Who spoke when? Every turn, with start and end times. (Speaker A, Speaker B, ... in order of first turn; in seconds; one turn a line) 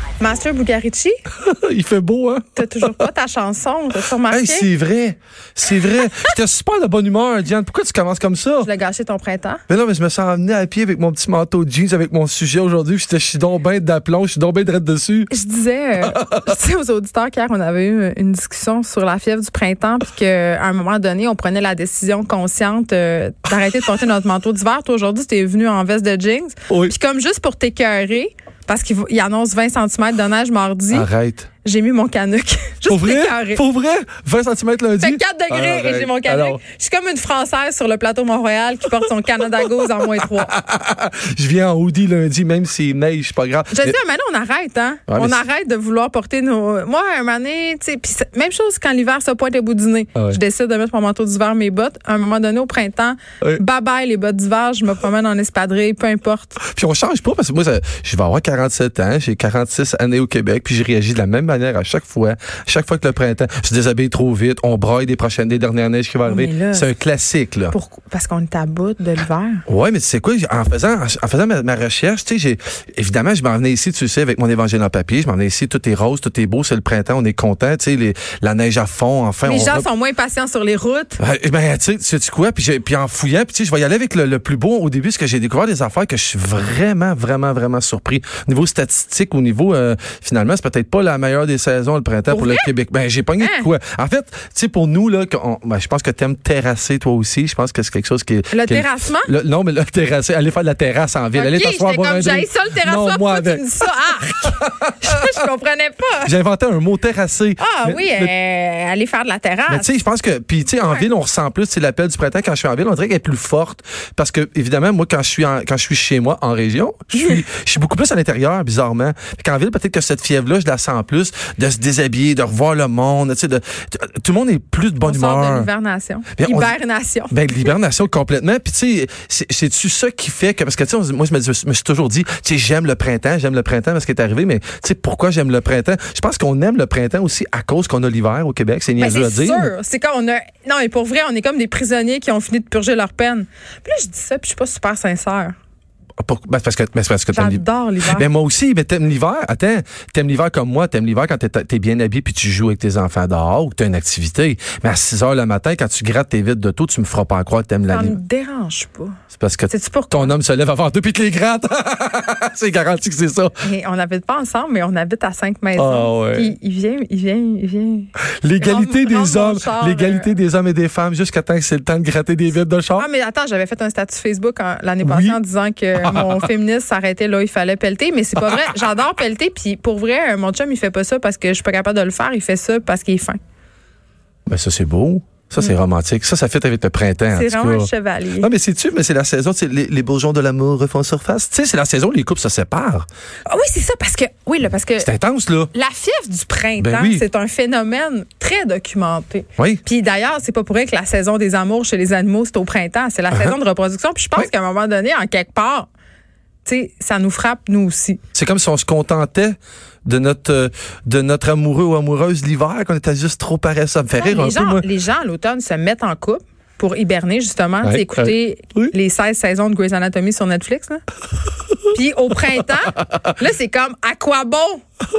Speaker A: 0.2-1.1
Speaker B: 1.3-3.1
Speaker A: 2.6-4.7
Speaker B: 4.3-8.7
Speaker A: 8.6-9.6
Speaker B: 9.7-15.3
Speaker A: 15.3-31.1
Speaker B: 16.0-16.5
Speaker B: 26.7-26.9
Speaker B: 30.9-31.5
Speaker A: 31.6-33.6
Speaker B: 32.9-36.6
Speaker A: 35.0-40.6
Speaker B: 39.8-44.0
Speaker A: 43.7-56.6
Speaker B: 45.1-45.4
Speaker B: 50.1-50.4
Speaker B: 56.6-67.7
Speaker A: 66.2-66.9
Speaker A: 67.7-69.6
Speaker B: 69.7-79.9
Speaker A: 79.4-81.2
Speaker B: 81.2-103.7
Speaker A: 92.3-92.7
Speaker A: 93.4-93.7
Speaker A: 98.5-99.3
Speaker A: 101.3-106.3
Speaker B: 104.4-105.3
Speaker B: 106.2-108.3
Speaker A: 107.6-110.0
Speaker B: 109.7-125.7
Speaker A: 125.0-127.5
Speaker B: 126.3-126.8
Speaker B: 127.3-139.7
Speaker A: 139.0-145.5
Speaker B: 146.2-158.2
Speaker A: 147.3-148.3
Speaker A: 157.9-159.2
Speaker B: 159.3-163.5
Speaker A: 159.7-160.3
Speaker A: 163.6-170.3
Speaker B: 165.8-166.5
Speaker B: 168.4-173.1
Speaker A: 173.0-183.4
Speaker B: 175.0-175.4
Speaker B: 176.0-176.4
Speaker B: 178.4-178.7
Speaker B: 184.5-193.1
Speaker A: 187.3-188.5
Speaker A: 193.5-195.1
Speaker B: 195.0-195.7
Speaker A: 195.7-205.9
Speaker B: 196.8-197.2
Speaker B: 199.6-199.8
Speaker B: 203.3-203.6
Speaker A: 206.7-208.2
Speaker B: 208.3-214.9
Speaker A: 214.2-221.0
Speaker B: 217.8-218.9
Speaker A: 221.9-224.8
Speaker B: 222.6-223.4